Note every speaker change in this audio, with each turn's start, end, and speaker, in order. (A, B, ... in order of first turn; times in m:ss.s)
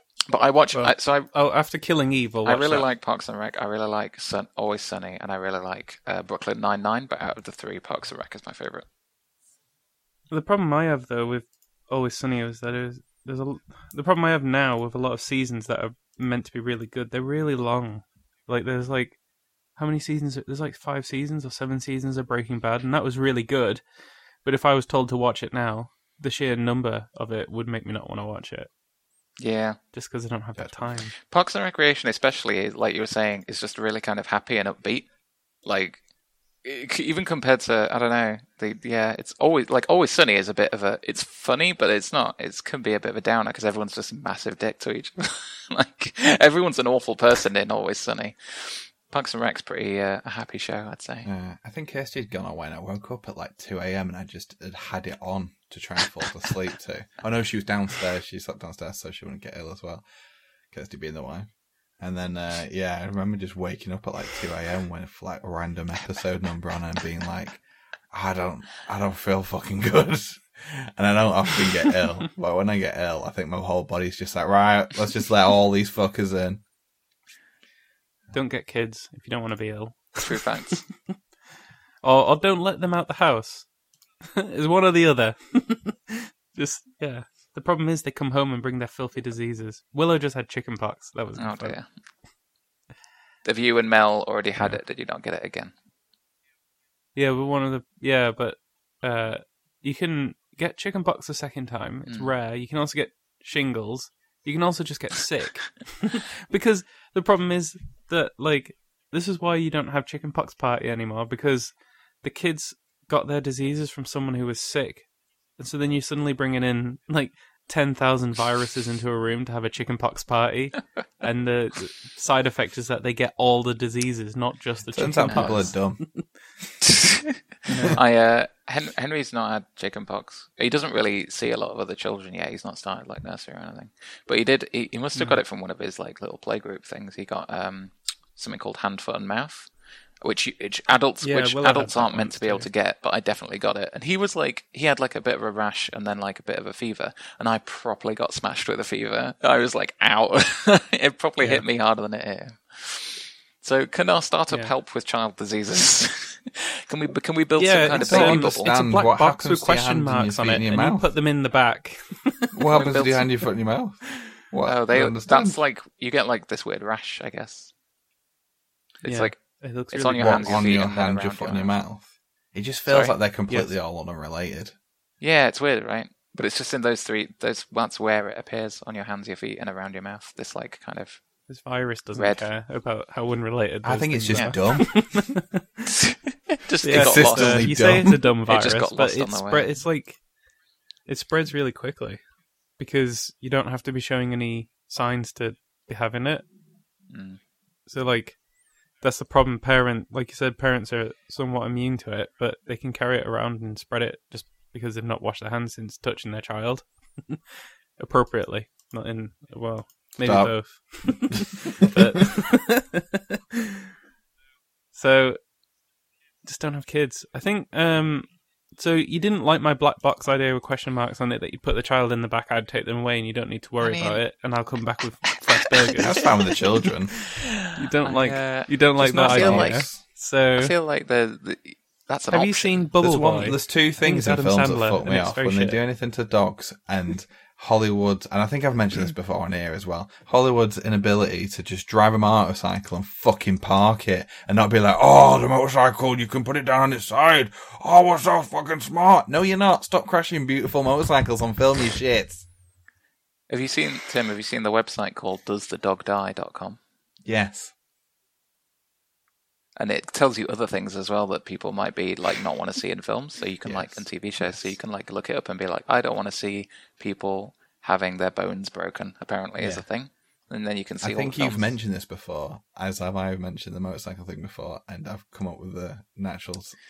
0:00.3-0:01.3 A
0:00.7-0:02.9 B
0:02.4-0:08.8 A
0:10.3-0:19.2 B
0:19.8-0:23.8 B
0:24.4-0:28.7 B
0:29.4-0:29.8 A
0:29.9-0:31.1 B
0:31.2-0:35.1 A
0:35.6-0:36.0 A
0:36.6-0:51.3 A
0:51.2-1:00.0 C
1:00.7-1:01.5 C
1:02.0-1:07.6 C
1:08.1-1:16.6 C
1:18.3-1:20.4 B
1:20.2-1:20.8 A
1:22.0-1:23.6 B
1:24.2-1:31.8 B
1:31.4-1:31.8 A
1:33.4-1:35.7 A
1:37.2-2:06.2 B
1:42.1-1:42.3 A
2:04.9-2:06.0 C
2:05.3-2:05.6 A
2:06.8-2:19.7 A
2:07.7-2:08.0 B
2:15.1-2:15.4 B
2:20.2-2:38.7 A
2:21.2-2:22.7 B
2:37.6-2:42.8 B
2:37.9-2:41.1 C
2:42.5-2:45.6 C
2:42.7-2:43.3 A
2:44.6-2:47.7 A
2:49.0-2:49.4 A
2:49.0-2:50.8 B
2:49.9-2:51.7 A
2:50.2-2:54.7 C
2:52.9-2:53.1 A
2:55.2-3:01.2 A
3:01.5-3:05.9 B
3:02.1-3:02.4 A
3:03.8-3:05.0 C
3:04.3-3:04.8 A
3:05.9-3:07.8 A
3:06.8-3:10.2 B
3:06.9-3:08.2 C
3:08.5-3:09.7 A
3:11.0-3:12.2 B
3:12.8-3:16.4 B
3:17.1-3:17.4 A
3:17.9-3:18.4 B
3:19.0-3:27.4 B
3:28.0-3:33.7 B
3:30.2-3:30.5 C
3:34.9-3:35.4 B
3:36.4-3:46.3 B
3:43.8-3:44.2 A
3:45.8-3:46.6 A
3:46.0-3:47.2 C
3:47.2-3:49.9 A
3:47.7-3:50.7 B
3:49.0-3:50.0 C
3:50.6-3:52.9 A
3:52.3-3:55.8 B
3:53.0-4:12.4 C
4:13.5-4:16.8 A
4:17.2-4:17.7 C
4:19.8-4:31.7 A
4:23.6-4:24.6 C
4:29.6-4:29.8 C
4:31.0-4:36.8 C